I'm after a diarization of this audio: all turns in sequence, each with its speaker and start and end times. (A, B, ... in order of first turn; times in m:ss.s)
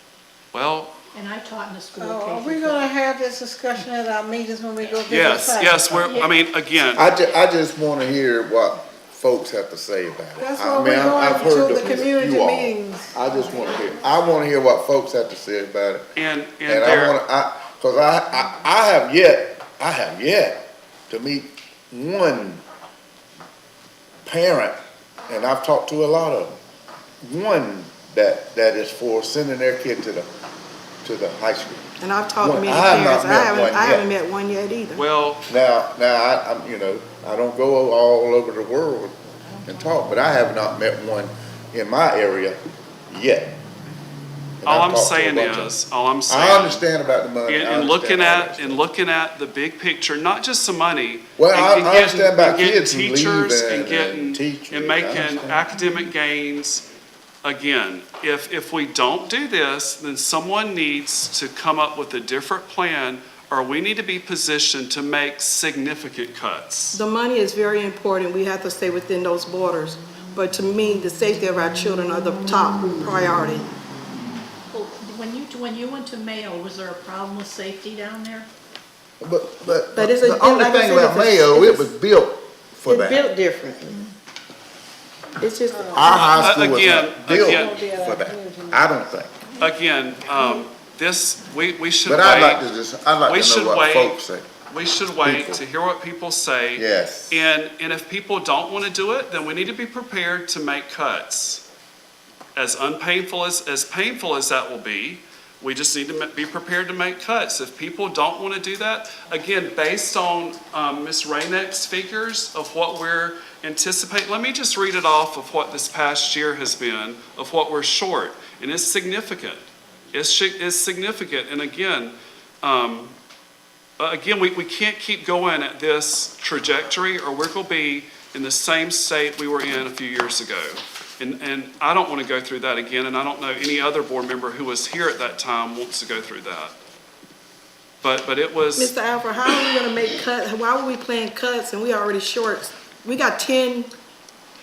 0:00.5-0:00.9 A
0:01.1-0:02.9 B
0:02.0-0:06.2 C
0:05.1-0:07.1 A
0:06.0-0:06.3 B
0:06.9-0:16.1 D
0:10.4-0:13.2 C
0:16.2-0:17.2 A
0:16.7-0:22.6 D
0:24.2-0:24.8 D
0:25.3-0:26.6 D
0:27.2-0:30.3 D
0:31.0-0:31.9 D
0:32.0-0:35.0 E
0:32.4-0:34.1 D
0:34.9-0:35.4 A
0:35.5-0:43.6 D
0:44.6-0:45.7 D
0:44.6-0:46.9 A
0:46.3-0:48.8 D
0:47.5-0:56.8 A
0:51.4-0:55.7 D
0:57.4-1:07.0 A
1:06.9-1:13.7 E
1:14.7-1:18.5 B
1:19.2-1:23.3 D
1:19.9-1:21.9 E
1:22.9-1:24.0 E
1:25.4-1:26.3 E
1:25.7-1:26.6 C
1:26.0-1:29.3 D
1:26.4-1:27.7 A
1:27.3-1:28.9 C
1:29.6-1:32.6 A
1:32.0-1:34.5 D
1:33.3-1:41.6 A
1:35.2-1:35.6 D
1:36.8-1:37.5 D
1:42.6-2:03.1 A
2:04.0-2:16.7 A
2:18.0-2:18.9 A
2:18.8-2:23.9 E